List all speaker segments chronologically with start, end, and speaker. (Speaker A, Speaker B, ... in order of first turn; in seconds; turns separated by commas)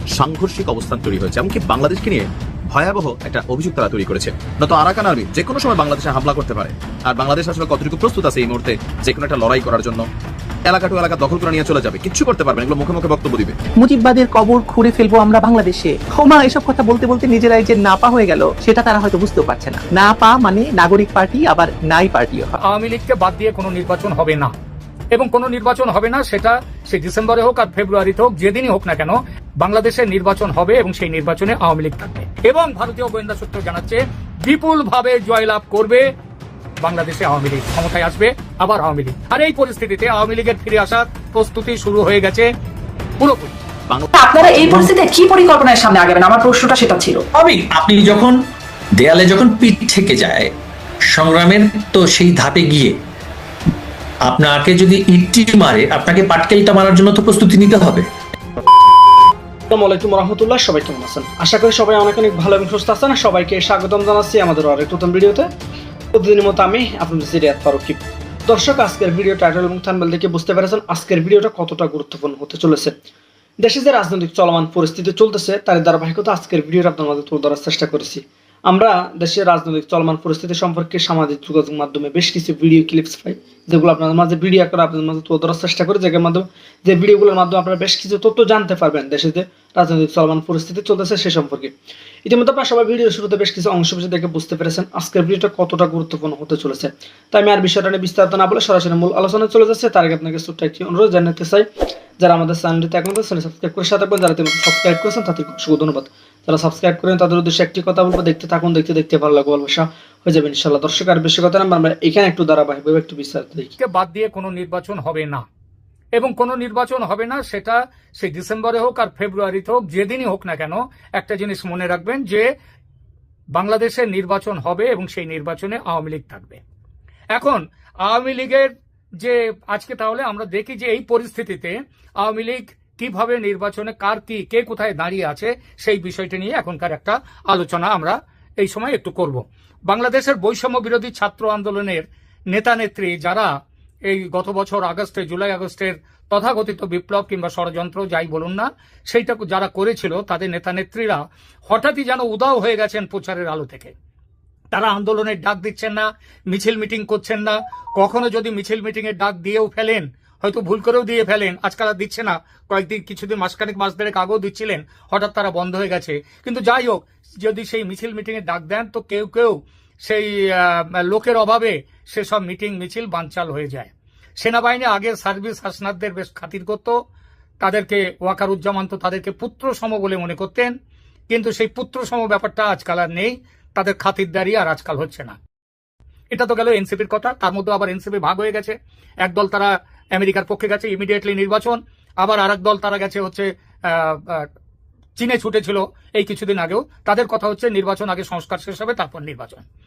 Speaker A: 0.1-10.1, Speaker A: 10.7-13.6, Speaker B: 13.8-22.5, Speaker C: 22.6-24.5, Speaker C: 25.1-36.0, Speaker C: 36.8-42.5, Speaker C: 43.2-43.6, Speaker A: 43.9-44.9, Speaker D: 44.1-47.2, Speaker E: 47.4-48.4, Speaker E: 49.0-50.5, Speaker E: 51.1-52.9, Speaker E: 54.2-58.0, Speaker F: 59.7-65.5, Speaker F: 66.1-72.9, Speaker F: 73.6-91.7, Speaker F: 92.2-101.6, Speaker F: 102.2-113.7, Speaker C: 113.8-115.4, Speaker C: 116.2-122.4, Speaker C: 123.5-126.6, Speaker C: 127.3-128.7, Speaker C: 129.2-143.5, Speaker C: 144.1-153.9, Speaker C: 154.7-173.9, Speaker C: 174.4-176.9, Speaker C: 177.6-180.7, Speaker C: 181.3-185.3, Speaker C: 186.3-194.5, Speaker C: 195.2-199.6